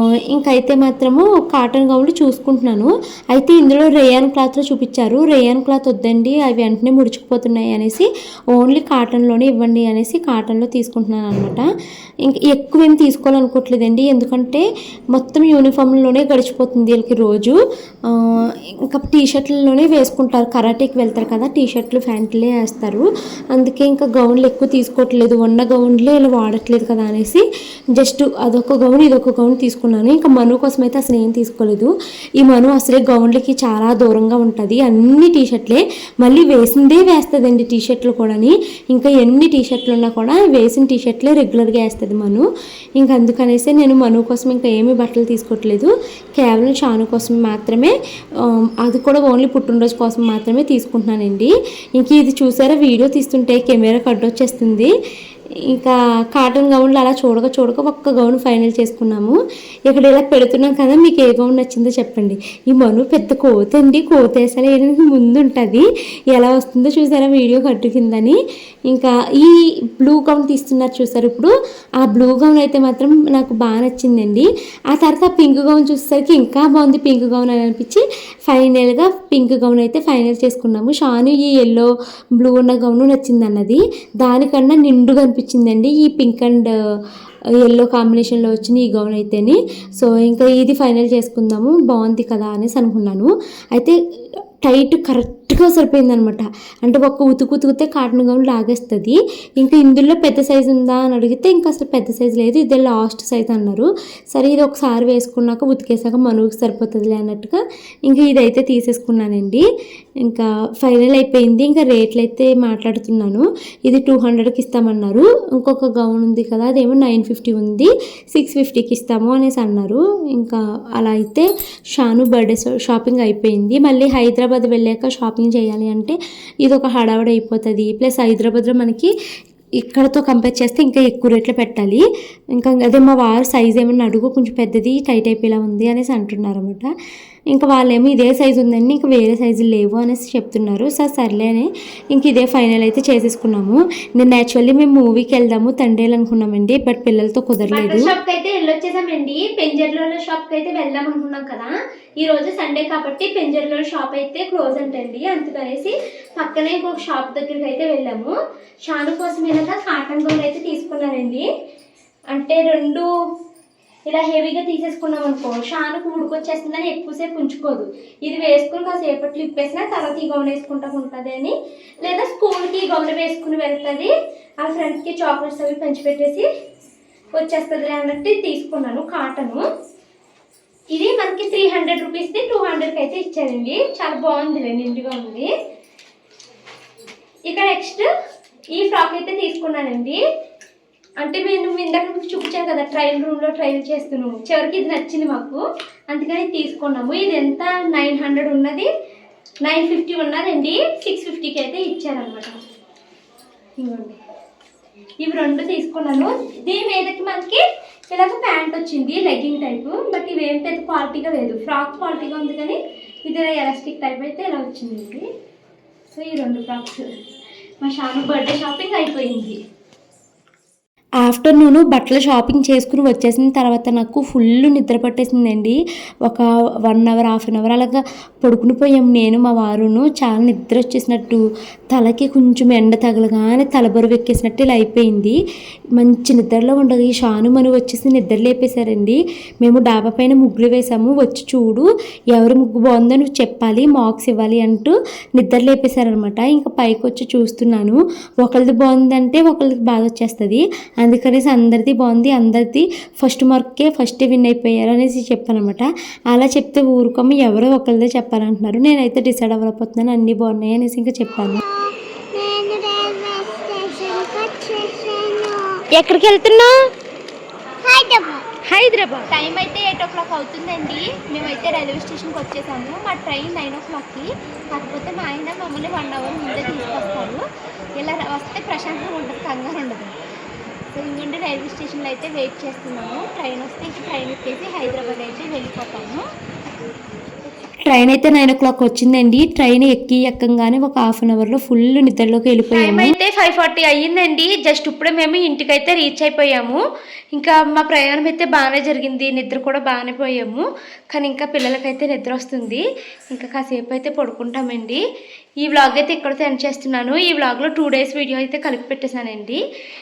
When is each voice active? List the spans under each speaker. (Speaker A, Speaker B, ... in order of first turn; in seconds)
Speaker A: 0.3-11.6, 12.2-17.6, 18.8-27.4, 28.0-42.5, 43.0-47.9, 48.5-54.9, 55.7-68.4, 68.9-86.7, 87.7-94.0, 94.7-109.7, 110.2-129.1, 129.8-132.0, 132.6-136.9, 137.5-148.1, 221.2-231.4, 231.9-235.4, 236.0-261.6, 287.8-293.1, 301.1-302.8, 303.3-305.0, 306.3-309.6
Speaker B: 147.7-158.3, 158.9-161.4, 162.3-163.1, 164.1-176.5, 177.4-179.6, 180.9-185.5, 187.5-188.1, 188.8-190.2, 191.2-198.9, 199.7-202.5, 203.8-204.2, 205.2-215.2, 216.1-217.1, 217.8-219.6, 265.9-266.7, 268.7-277.4, 278.0-280.1, 280.9-286.2, 292.7-296.8, 297.3-300.6, 305.6-306.3
Speaker C: 261.6-265.8, 267.8-268.4